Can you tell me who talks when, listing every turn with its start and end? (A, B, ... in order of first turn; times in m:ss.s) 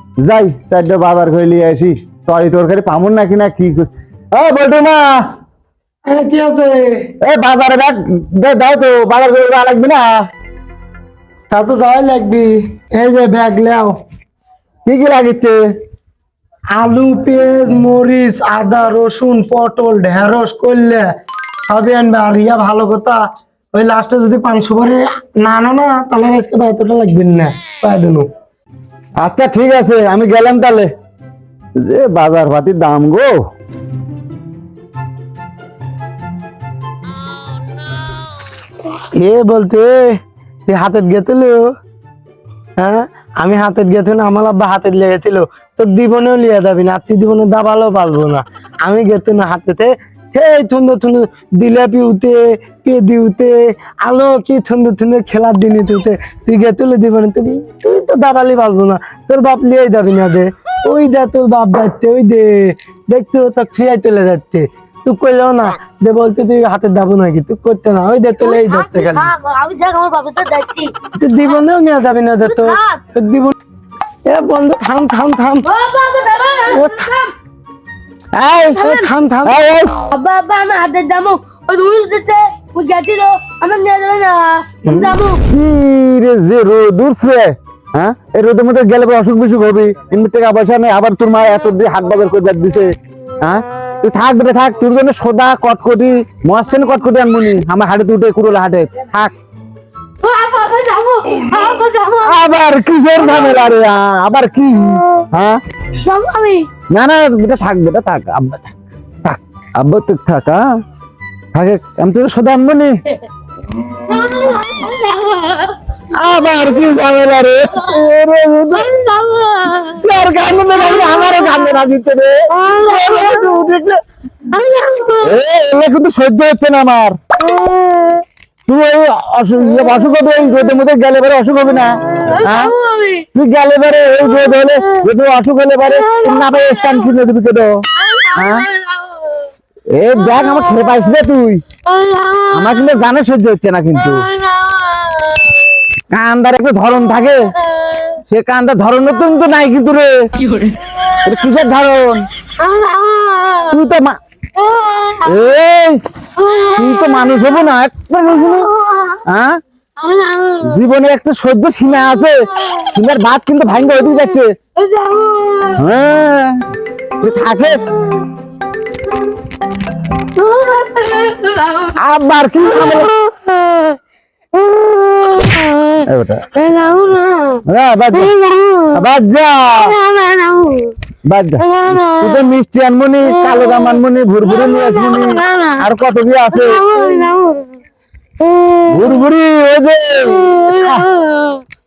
0:00.2-0:05.1 A
0:06.1-0:07.1 B
0:07.2-0:10.2 A
0:11.5-0:14.0 B
0:14.9-0:15.6 A
0:16.8-0:21.0 B
0:21.7-0:23.2 B
0:23.7-0:28.3 B
0:29.2-0:30.9 A
0:31.8-0:33.3 A
0:39.2-0:41.7 B
0:42.8-1:09.3 B
1:08.4-1:10.9 C
1:11.2-1:13.6 B
1:12.4-1:13.0 C
1:14.3-1:15.7 B
1:15.6-1:17.3 C
1:16.7-1:17.1 B
1:18.4-1:18.8 A
1:18.8-1:19.1 C
1:18.8-1:19.6 B
1:19.5-1:20.1 A
1:20.1-1:25.4 C
1:24.9-1:25.2 B
1:25.5-1:27.4 A
1:28.0-1:32.9 A
1:33.4-1:39.3 A
1:40.2-1:42.4 C
1:42.2-1:45.6 A
1:43.2-1:43.7 C
1:46.0-1:46.7 C
1:46.9-1:48.7 A
1:49.2-1:50.6 A
1:51.6-1:52.9 A
1:54.1-1:56.8 C
1:56.1-1:58.9 A
1:57.8-1:58.0 C
1:58.7-2:00.0 C
1:59.9-2:04.0 A
2:00.8-2:01.9 C
2:02.5-2:03.7 C
2:04.5-2:05.4 C
2:05.2-2:07.2 A
2:07.4-2:08.2 C
2:08.7-2:12.7 A
2:09.6-2:10.7 C
2:12.1-2:13.3 C
2:13.4-2:17.8 A
2:14.2-2:15.1 C
2:15.8-2:17.1 C
2:18.0-2:19.5 C
2:18.4-2:18.7 A
2:19.9-2:21.6 A
2:20.2-2:21.1 C
2:21.9-2:23.0 C
2:22.5-2:24.2 A
2:24.0-2:25.8 C
2:26.1-2:27.5 A
2:27.2-2:28.2 C
2:28.3-2:30.1 A
2:31.2-2:32.2 A
2:32.6-2:33.8 C
2:33.7-2:34.2 A
2:34.6-2:35.5 C
2:35.3-2:36.0 A
2:36.4-2:37.7 C
2:36.7-2:38.7 A
2:38.2-2:39.2 C
2:39.3-2:39.6 A
2:40.0-2:40.8 C
2:40.6-2:44.5 A
2:42.0-2:42.9 C
2:44.1-2:45.8 C
2:45.8-2:46.6 A
2:47.2-2:47.8 A
2:50.4-2:52.0 C
2:52.0-2:53.1 A
2:52.6-2:54.0 C
2:54.5-2:59.0 C
2:56.0-2:56.4 A
2:57.7-2:58.3 A
2:58.9-3:00.0 A
2:59.7-3:01.0 C
3:01.3-3:06.8 A
3:01.6-3:02.5 C
3:03.3-3:05.8 C
3:06.5-3:07.8 C
3:08.4-3:09.3 C
3:08.9-3:11.0 A
3:10.3-3:11.6 C